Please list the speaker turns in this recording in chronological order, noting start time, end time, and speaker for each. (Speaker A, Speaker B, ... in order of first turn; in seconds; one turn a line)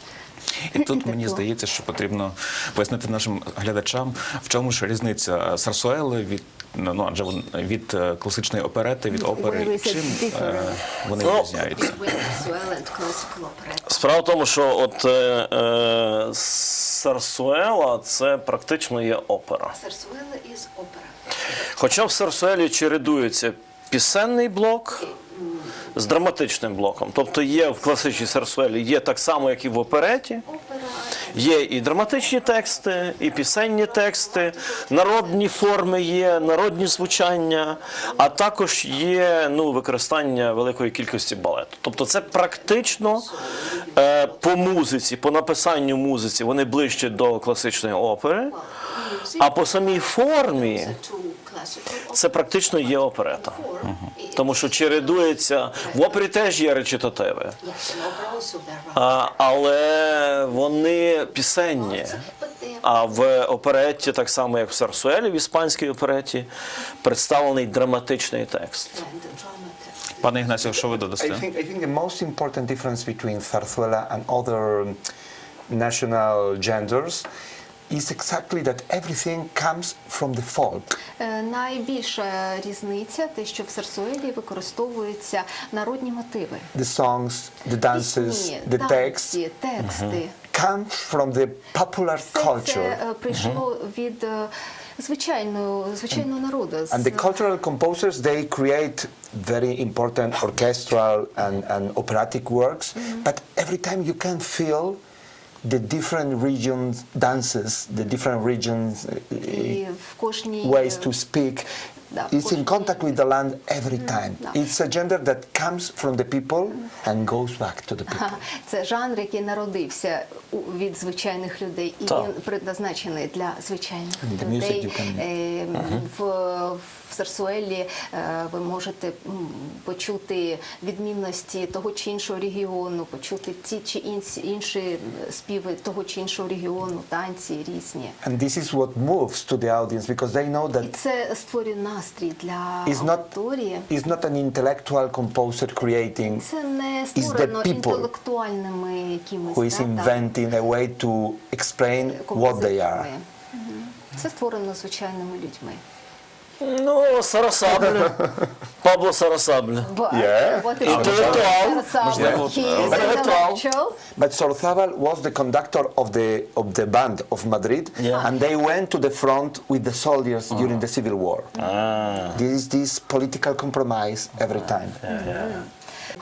Speaker A: 0.7-12.0
Speaker B: 0.9-1.4
Speaker B: 9.1-14.2
Speaker C: 11.2-11.7
Speaker C: 13.9-19.7
Speaker B: 19.7-21.1
Speaker C: 21.8-25.1
Speaker B: 24.9-25.9
Speaker C: 25.9-30.4
Speaker B: 30.4-32.4
Speaker C: 31.3-43.3
Speaker B: 33.6-35.7
Speaker B: 37.9-38.3
Speaker B: 42.2-44.8
Speaker C: 43.9-48.5
Speaker B: 48.5-55.2
Speaker C: 49.4-50.9
Speaker C: 52.1-53.6
Speaker C: 54.4-57.6
Speaker B: 55.8-56.2
Speaker B: 57.6-59.2
Speaker C: 58.9-62.2
Speaker B: 61.8-62.8
Speaker C: 62.8-66.5
Speaker C: 67.0-68.9
Speaker B: 68.9-70.6
Speaker A: 70.2-71.4
Speaker D: 71.2-75.0
Speaker D: 75.7-77.2
Speaker D: 77.9-81.0
Speaker B: 81.2-86.7
Speaker D: 86.7-89.4
Speaker B: 87.9-90.3
Speaker D: 90.5-93.0
Speaker B: 92.3-97.3
Speaker D: 96.9-105.0
Speaker D: 105.6-109.8
Speaker B: 109.4-111.1
Speaker D: 110.6-111.7
Speaker B: 112.1-113.1
Speaker D: 112.3-118.4
Speaker B: 118.1-138.2
Speaker D: 124.2-125.2
Speaker D: 138.2-140.9
Speaker B: 140.8-143.9
Speaker D: 142.8-143.3
Speaker D: 143.9-146.4
Speaker B: 146.2-150.2
Speaker D: 147.2-148.1
Speaker D: 149.5-153.1
Speaker B: 152.1-155.8
Speaker C: 156.6-159.9
Speaker B: 159.8-164.0
Speaker D: 160.1-161.7
Speaker C: 160.8-163.6
Speaker A: 160.9-163.3
Speaker D: 164.2-171.6
Speaker C: 168.0-168.2
Speaker C: 171.6-172.4
Speaker D: 172.3-175.0
Speaker C: 175.0-175.6
Speaker B: 175.1-175.6